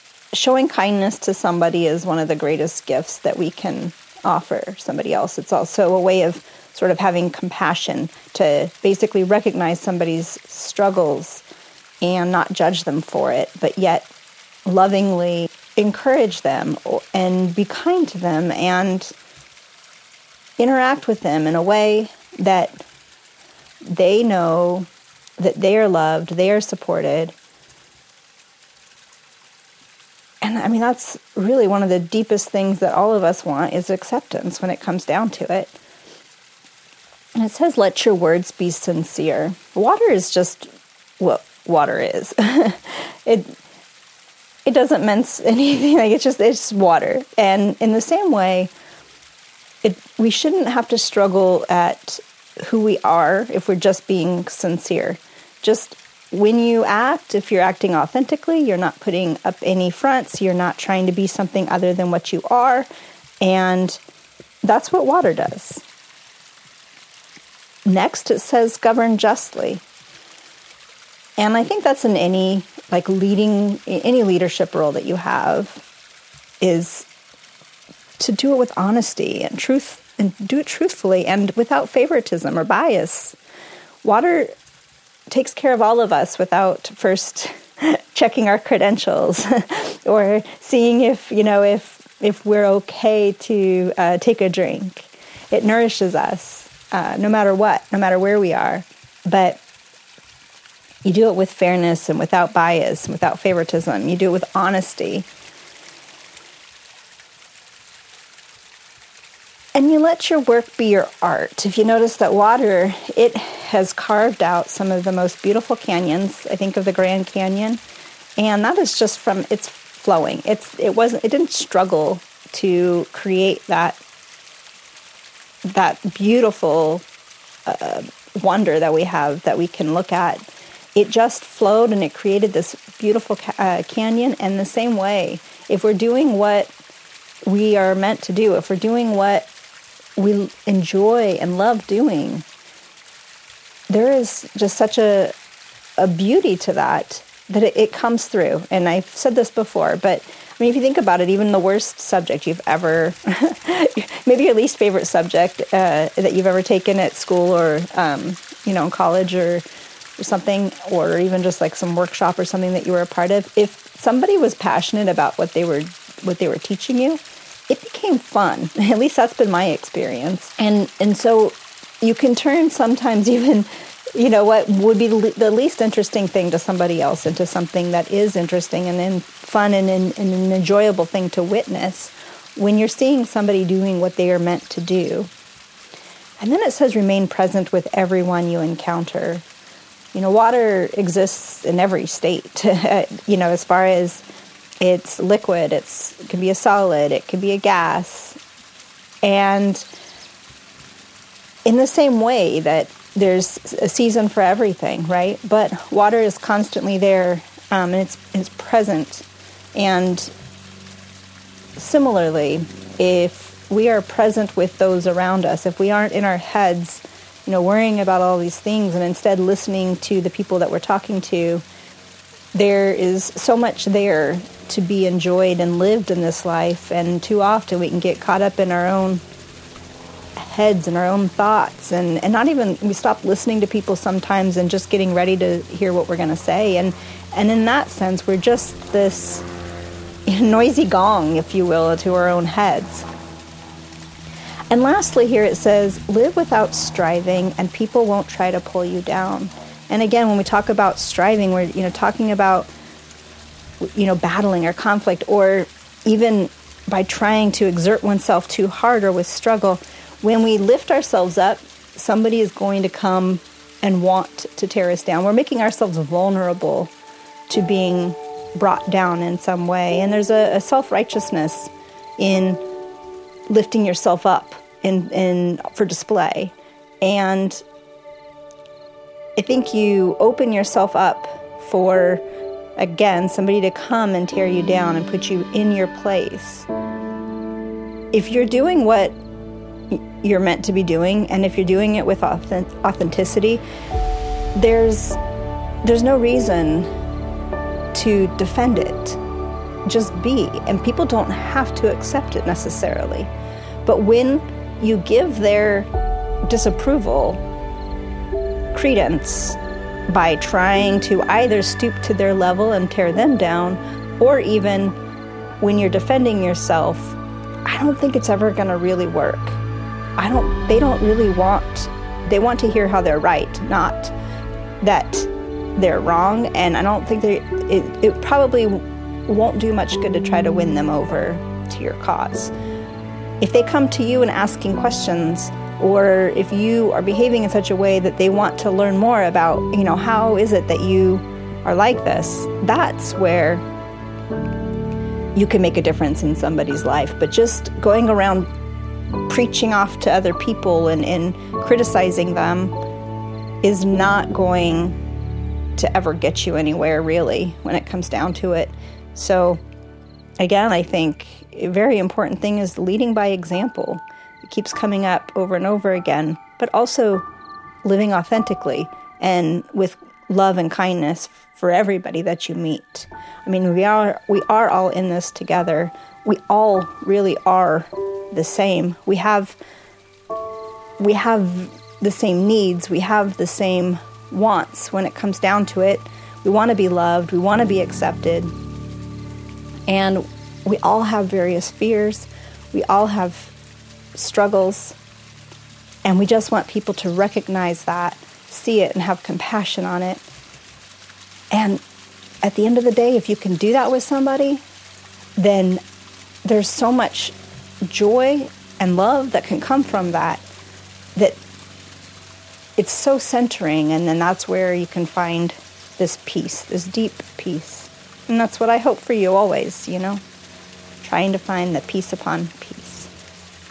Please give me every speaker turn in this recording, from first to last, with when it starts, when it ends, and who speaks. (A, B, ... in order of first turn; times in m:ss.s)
0:00.3-0:11.4 A
0:12.0-0:14.1 A
0:14.6-0:19.1 A
0:20.6-0:22.8 A
0:23.8-0:24.9 A
0:25.4-0:27.3 A
0:30.4-0:35.8 A
0:37.4-0:40.7 A
0:41.2-0:43.6 A
0:44.6-0:48.7 A
0:49.8-1:02.9 A
1:03.4-1:04.0 A
1:04.6-1:05.8 A
1:07.8-1:09.8 A
1:11.4-1:15.8 A
1:16.6-1:17.1 A
1:18.2-1:23.4 A
1:24.0-1:24.5 A
1:25.3-1:39.6 A
1:41.0-1:45.3 A
1:49.7-1:57.8 A
1:58.4-2:04.0 A
2:05.6-2:07.0 A
2:07.6-2:16.7 A
2:17.4-2:19.5 A
2:20.2-2:22.4 A
2:23.9-2:25.3 A
2:26.0-2:39.6 A
2:40.2-3:05.3 A
3:06.4-3:09.4 A
3:10.1-3:14.2 A
3:14.8-3:18.4 A
3:19.2-3:19.8 A
3:21.6-3:30.3 A
3:31.8-3:41.6 A
3:42.5-3:49.2 A
3:50.4-3:59.4 A
4:00.3-4:03.1 A
4:04.7-4:12.7 A
4:13.8-4:26.9 A
4:27.5-4:32.6 A
4:33.5-4:37.6 A
4:39.4-4:42.2 A
4:42.8-4:46.7 A
4:48.1-4:49.2 A
4:49.9-4:53.6 A
4:54.5-4:55.2 A
4:55.8-4:56.9 A
4:57.9-4:59.2 A
4:59.8-5:03.3 A
5:03.8-5:05.9 A
5:06.5-5:07.4 A
5:08.7-5:15.0 A
5:15.6-5:19.6 A
5:20.2-5:24.1 A
5:24.8-5:32.5 A
5:33.4-5:43.6 A
5:45.3-5:48.5 A
5:49.3-5:52.7 A
5:53.6-5:55.0 A
5:55.8-5:59.6 A
6:00.4-6:07.2 A
6:07.8-6:19.6 A
6:21.0-6:28.5 A
6:29.9-6:33.5 A
6:34.1-6:35.0 A
6:36.0-6:40.2 A
6:41.5-6:41.8 A
6:42.4-6:44.6 A
6:45.4-6:45.8 A
6:46.4-6:50.4 A
6:52.8-7:00.2 A
7:01.0-7:03.1 A